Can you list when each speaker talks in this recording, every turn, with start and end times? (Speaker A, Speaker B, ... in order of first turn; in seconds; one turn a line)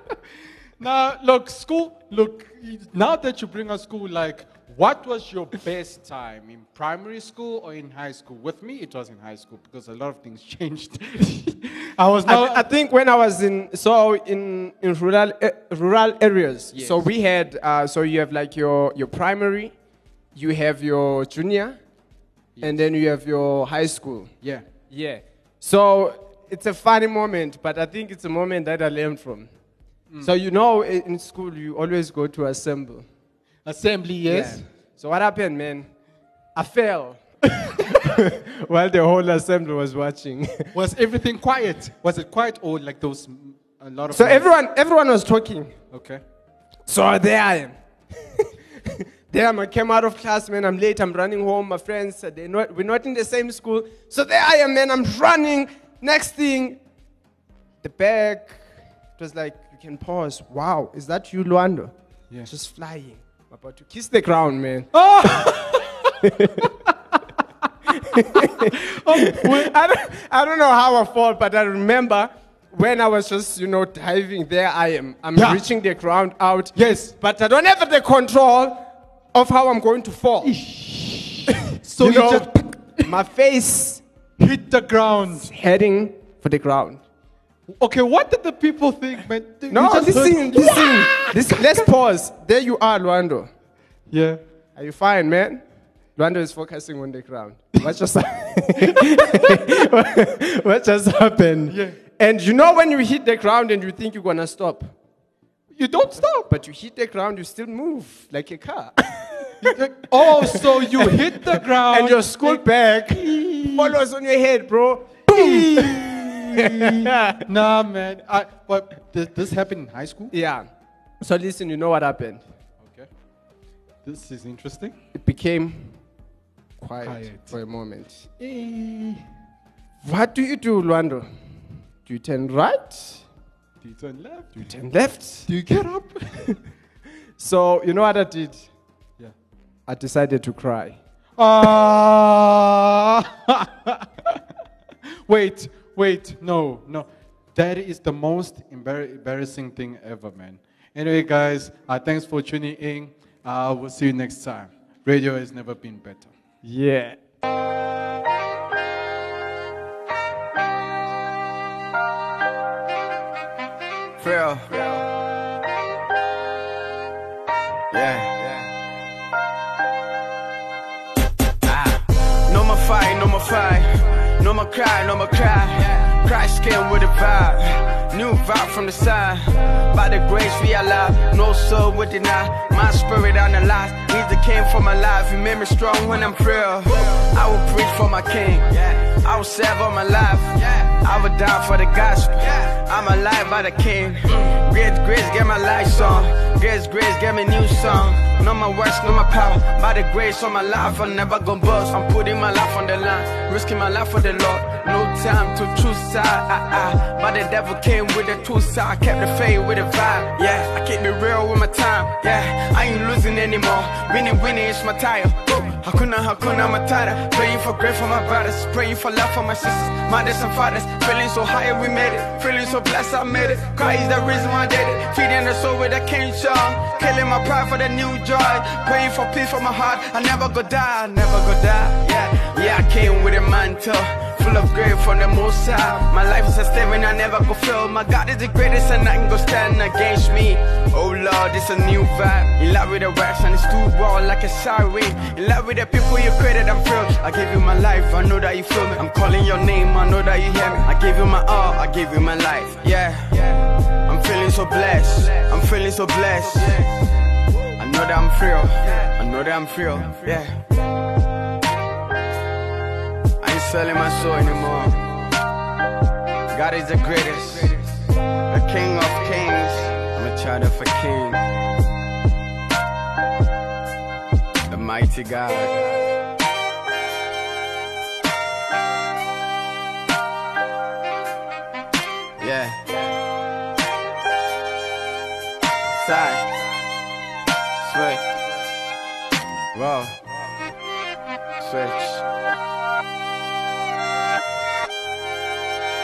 Speaker A: 0.8-12.7
Speaker B: 12.2-19.7
Speaker A: 16.7-17.1
Speaker B: 20.3-21.8
Speaker A: 22.5-22.9
Speaker B: 22.6-24.3
Speaker B: 24.9-29.5
Speaker B: 30.2-33.1
Speaker A: 33.6-34.6
Speaker B: 34.2-35.9
Speaker B: 36.5-40.7
Speaker A: 40.7-44.5
Speaker B: 44.1-45.7
Speaker A: 45.9-46.2
Speaker B: 46.9-56.8
Speaker B: 57.8-58.6
Speaker B: 59.2-61.9
Speaker B: 62.4-64.9
Speaker A: 64.9-66.7
Speaker B: 66.2-66.7
Speaker A: 67.9-69.8
Speaker B: 67.9-80.5
Speaker A: 75.3-75.6
Speaker A: 76.7-77.1
Speaker A: 80.4-83.2
Speaker B: 81.8-84.0
Speaker A: 84.4-85.5
Speaker B: 85.4-87.0
Speaker A: 87.7-91.8
Speaker B: 89.7-93.5
Speaker A: 94.1-94.4
Speaker B: 94.8-95.6
Speaker B: 96.2-104.9
Speaker A: 98.9-99.9
Speaker A: 101.7-102.0
Speaker A: 105.7-106.5
Speaker B: 106.5-117.4
Speaker A: 109.6-114.0
Speaker A: 115.3-120.3
Speaker B: 120.3-120.7
Speaker B: 121.2-122.4
Speaker A: 122.8-123.1
Speaker A: 124.0-124.9
Speaker B: 125.1-126.0
Speaker B: 126.8-128.3
Speaker A: 127.0-127.5
Speaker A: 128.4-129.2
Speaker B: 130.0-131.3
Speaker B: 132.0-133.2
Speaker A: 133.8-134.7
Speaker B: 134.6-135.5
Speaker A: 135.5-136.6
Speaker B: 137.4-138.6
Speaker B: 139.9-141.0
Speaker A: 141.4-144.4
Speaker A: 145.2-156.3
Speaker B: 156.6-157.2
Speaker C: 164.2-165.0
Speaker C: 167.9-168.7
Speaker C: 171.6-257.1
Speaker C: 257.8-260.6
Speaker C: 263.4-265.1
Speaker C: 266.5-267.9
Speaker C: 268.5-271.5
Speaker C: 274.7-275.9
Speaker C: 282.4-283.1
Speaker C: 285.9-286.5
Speaker C: 287.8-288.3
Speaker C: 289.7-290.2
Speaker C: 291.6-292.2